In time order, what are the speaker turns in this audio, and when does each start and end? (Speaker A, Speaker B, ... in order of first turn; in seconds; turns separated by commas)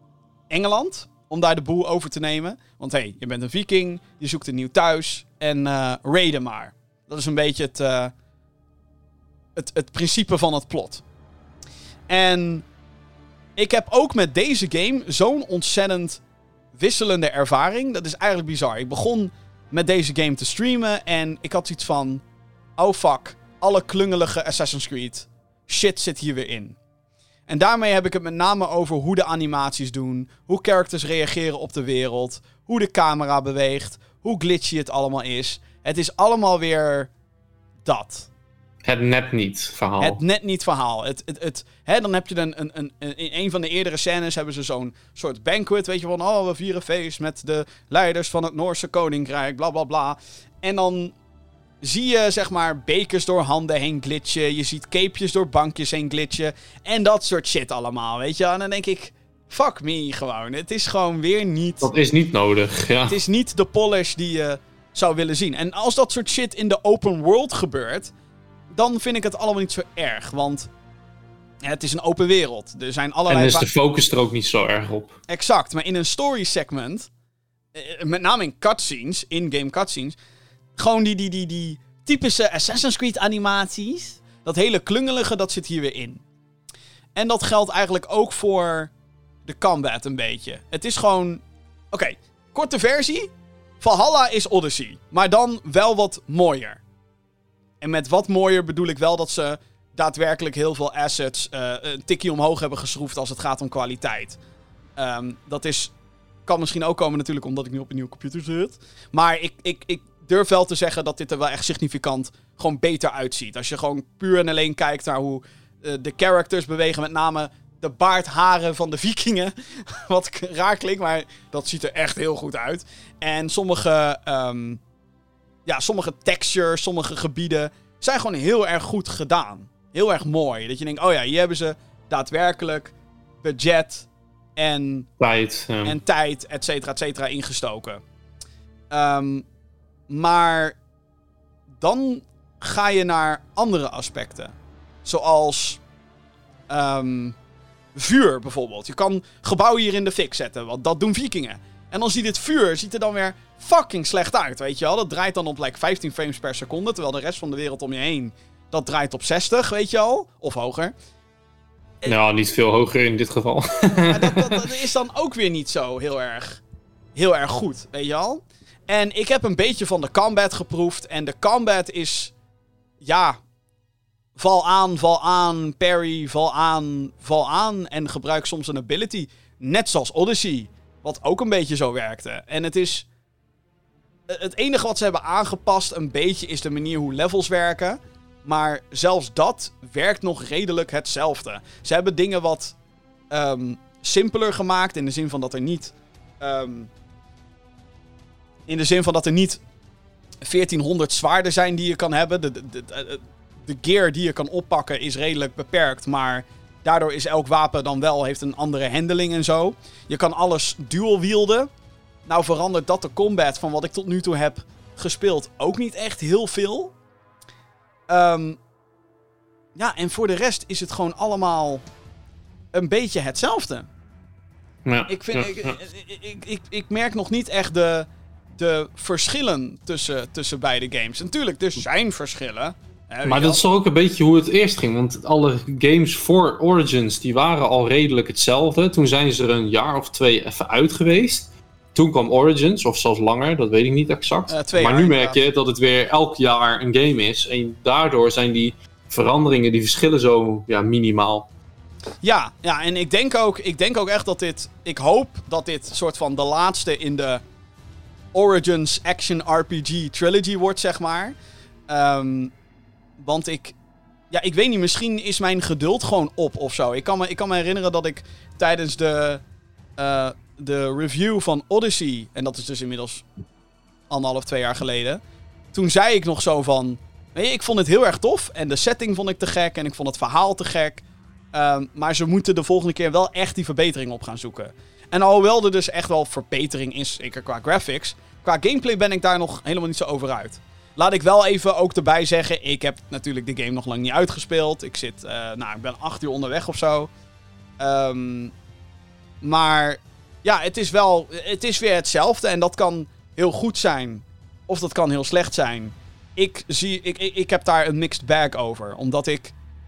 Speaker A: 0.5-8.1, Speaker A: 9.6-11.0, Speaker A: 12.1-12.6, Speaker A: 13.6-16.2, Speaker A: 16.8-22.2, Speaker A: 22.8-26.8, Speaker A: 27.5-37.1, Speaker A: 37.8-38.3, Speaker B: 38.8-40.2, Speaker A: 40.0-51.1, Speaker A: 51.8-61.9, Speaker B: 61.8-63.2, Speaker A: 63.1-68.1, Speaker A: 68.7-70.7, Speaker A: 71.6-73.7, Speaker B: 73.3-75.2, Speaker A: 75.3-77.1, Speaker A: 77.7-80.2, Speaker A: 80.8-86.2, Speaker A: 87.1-88.9, Speaker A: 89.4-96.8, Speaker A: 97.8-104.4, Speaker A: 105.0-105.9, Speaker A: 106.5-124.8, Speaker A: 125.7-135.1, Speaker B: 135.2-136.0, Speaker A: 135.8-138.0, Speaker A: 138.9-139.4, Speaker A: 140.1-140.8, Speaker A: 141.8-144.5, Speaker A: 145.0-145.8, Speaker A: 146.7-147.3, Speaker A: 147.9-160.9, Speaker B: 162.1-164.7, Speaker A: 164.0-166.6, Speaker A: 167.1-172.3, Speaker A: 173.0-173.4, Speaker A: 174.4-183.1, Speaker A: 184.3-192.8, Speaker A: 193.3-196.9, Speaker A: 198.7-199.6, Speaker A: 200.4-211.7, Speaker A: 212.2-216.9, Speaker A: 218.1-218.6, Speaker A: 219.8-221.8, Speaker A: 222.7-223.9, Speaker B: 224.8-225.8, Speaker A: 225.1-233.6, Speaker B: 233.2-251.5, Speaker A: 244.5-245.4, Speaker A: 252.2-257.4, Speaker A: 258.3-261.3, Speaker A: 261.9-262.5, Speaker A: 263.2-263.7, Speaker A: 264.3-269.4, Speaker A: 270.0-273.2, Speaker A: 274.1-275.2, Speaker A: 275.7-281.0, Speaker A: 281.5-297.1, Speaker A: 297.8-298.5, Speaker A: 299.4-309.5